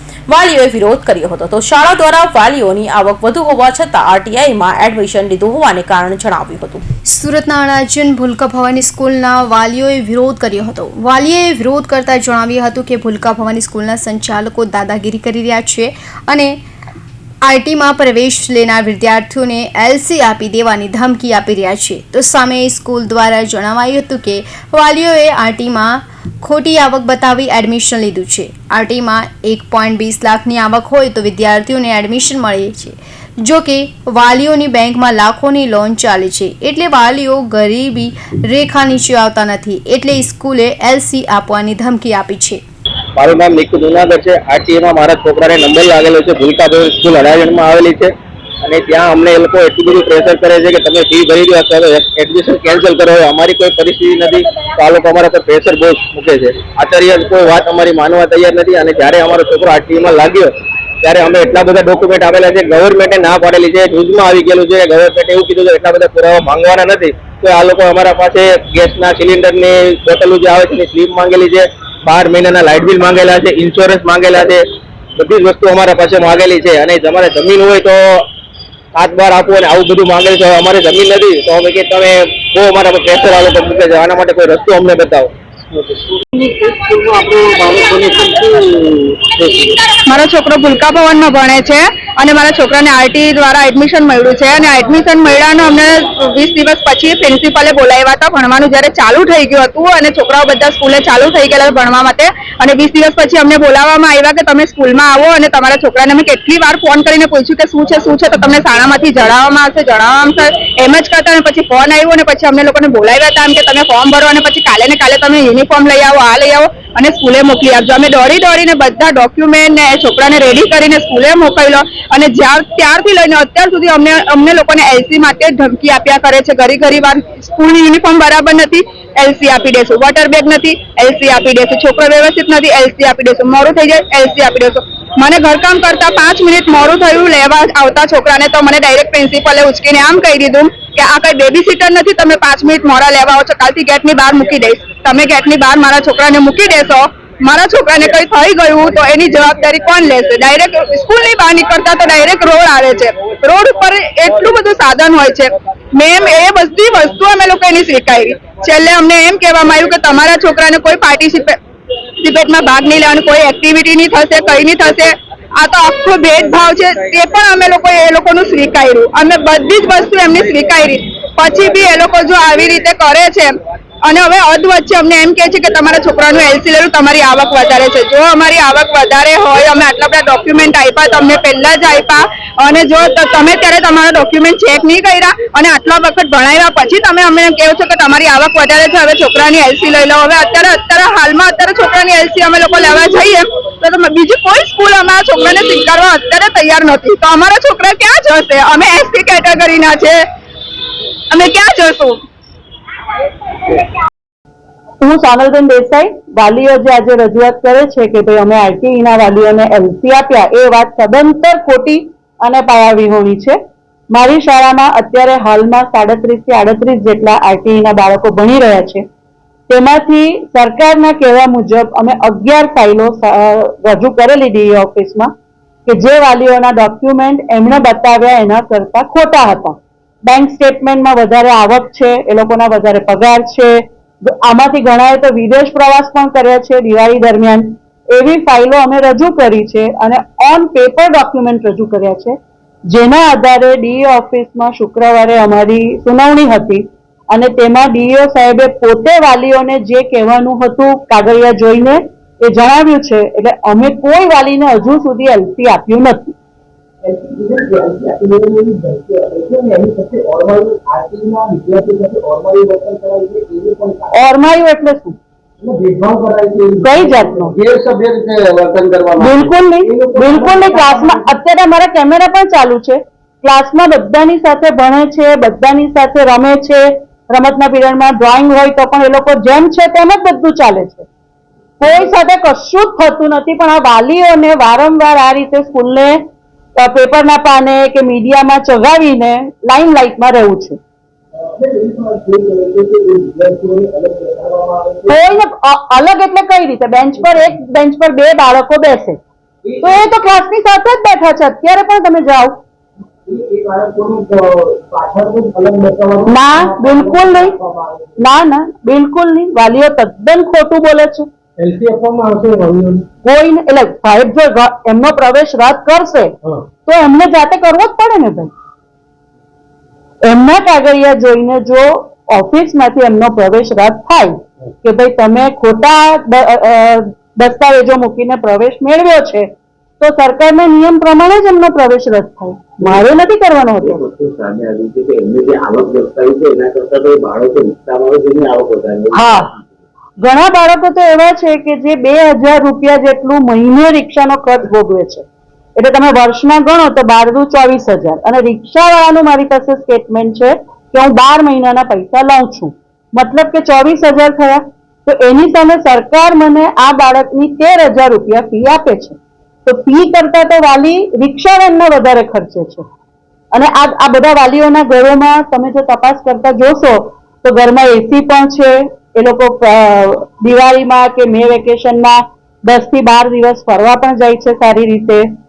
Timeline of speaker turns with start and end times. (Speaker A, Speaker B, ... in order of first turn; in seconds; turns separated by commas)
Speaker A: 0.4-6.8, Speaker B: 7.1-16.6, Speaker B: 17.5-42.6, Speaker C: 43.2-60.5, Speaker C: 61.0-74.6, Speaker C: 75.2-78.2, Speaker C: 79.0-85.3, Speaker D: 90.1-161.6, Speaker D: 162.2-173.5, Speaker D: 174.1-200.2, Speaker D: 201.3-202.2, Speaker E: 205.0-213.6, Speaker E: 214.1-219.0, Speaker E: 219.7-225.3, Speaker E: 225.9-242.4, Speaker E: 242.9-256.3, Speaker F: 257.0-264.1, Speaker E: 264.1-265.1, Speaker F: 265.6-271.3, Speaker E: 266.8-267.6, Speaker E: 269.2-281.1, Speaker E: 281.8-286.2, Speaker E: 286.8-290.8, Speaker F: 291.5-295.2, Speaker E: 295.1-299.2, Speaker F: 299.6-300.0, Speaker E: 299.8-302.6, Speaker F: 303.3-308.1, Speaker E: 306.3-307.6, Speaker E: 308.2-311.3, Speaker F: 311.6-313.1, Speaker E: 313.2-316.3, Speaker E: 316.9-318.5, Speaker E: 320.2-329.5, Speaker E: 330.0-334.0, Speaker G: 333.8-339.6, Speaker E: 339.1-339.5, Speaker E: 340.2-345.2, Speaker E: 345.8-362.9, Speaker E: 363.5-375.3